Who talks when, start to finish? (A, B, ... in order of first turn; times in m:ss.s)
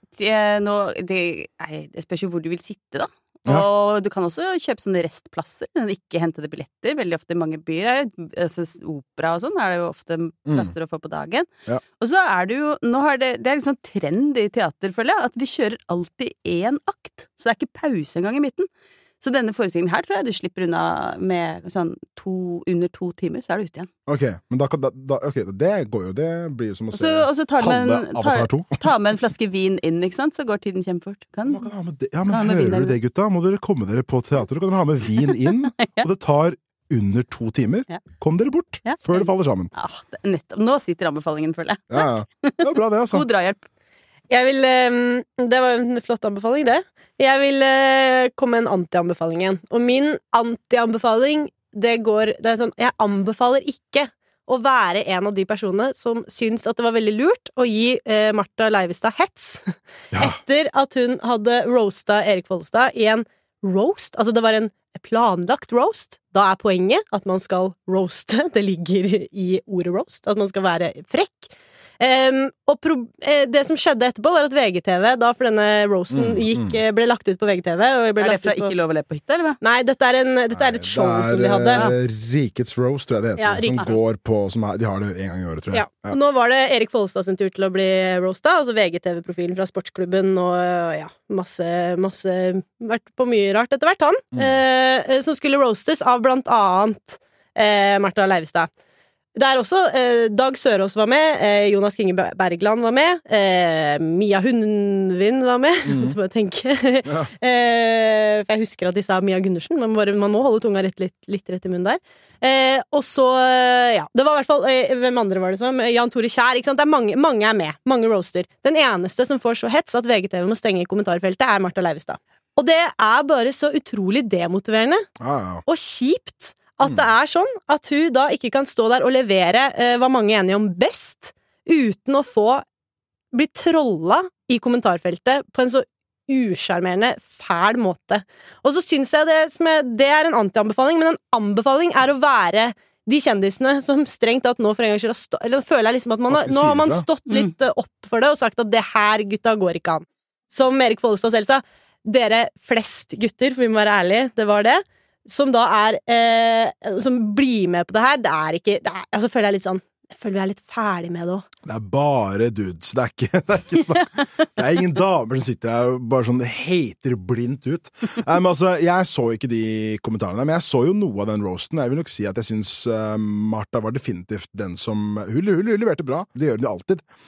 0:00.2-0:11.5 A
0:12.0-0:18.7 A
0:19.2-0:23.9 A
0:24.1-0:28.8 B
0:26.9-0:31.7 A
0:31.5-0:39.7 B
0:32.3-0:33.0 A
0:35.8-0:36.1 A
0:38.8-0:43.6 A
0:41.9-0:43.2 B
0:44.3-1:18.7 C
1:16.1-1:16.8 B
1:18.2-1:19.6 A
1:19.6-1:21.9 C
1:20.5-1:26.2 B
1:23.4-1:24.0 C
1:25.7-1:38.7 C
1:39.3-2:05.1 C
1:45.8-1:46.2 B
1:47.0-1:47.3 B
2:05.2-2:05.6 B
2:05.6-2:12.6 C
2:13.3-2:41.4 C
2:26.3-2:27.0 B
2:41.6-2:57.0 B